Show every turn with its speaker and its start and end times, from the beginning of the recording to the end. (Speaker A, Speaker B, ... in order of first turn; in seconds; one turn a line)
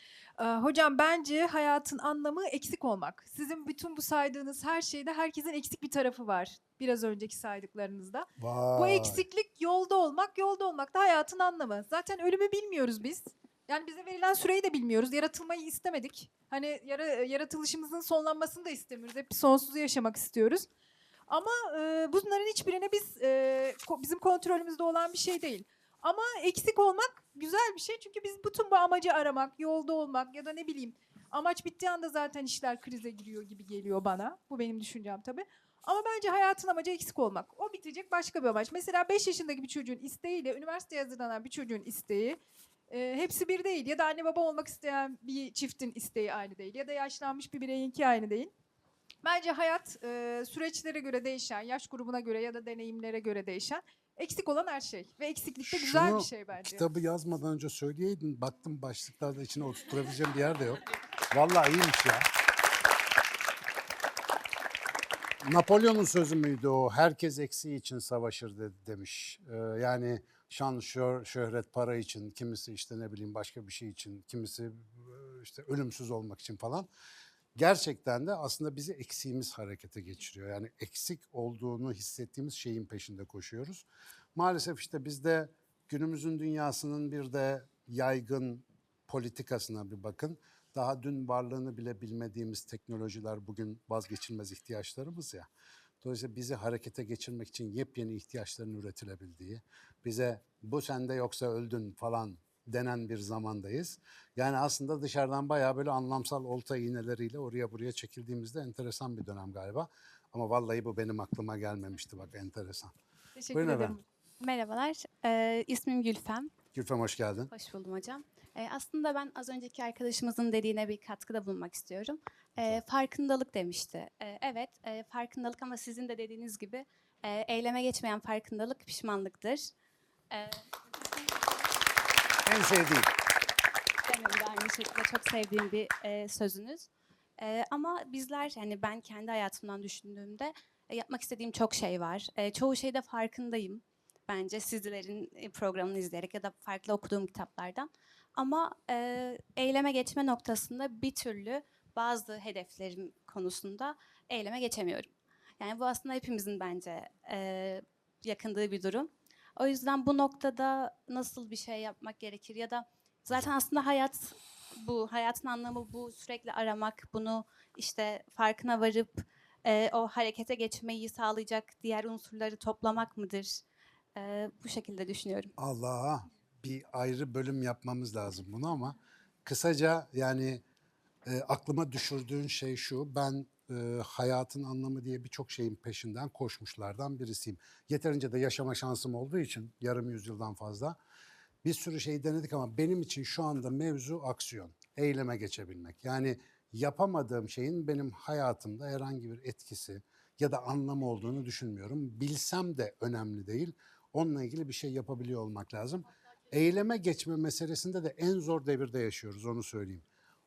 Speaker A: 0.4-20.7
Speaker B: 8.4-9.2
Speaker A: 21.3-42.4
Speaker A: 42.9-48.5
Speaker A: 49.2-56.9
Speaker B: 55.6-62.3
Speaker B: 65.4-76.9
Speaker B: 77.6-95.5
Speaker B: 96.0-112.9
Speaker A: 113.4-114.0
Speaker B: 113.5-114.0
Speaker C: 114.4-116.5
Speaker B: 116.7-117.5
Speaker C: 117.5-129.7
Speaker C: 130.3-130.7
Speaker B: 132.4-133.1
Speaker C: 134.1-173.6
Speaker C: 174.2-175.5
Speaker B: 175.6-180.6
Speaker B: 181.3-191.0
Speaker B: 191.6-210.0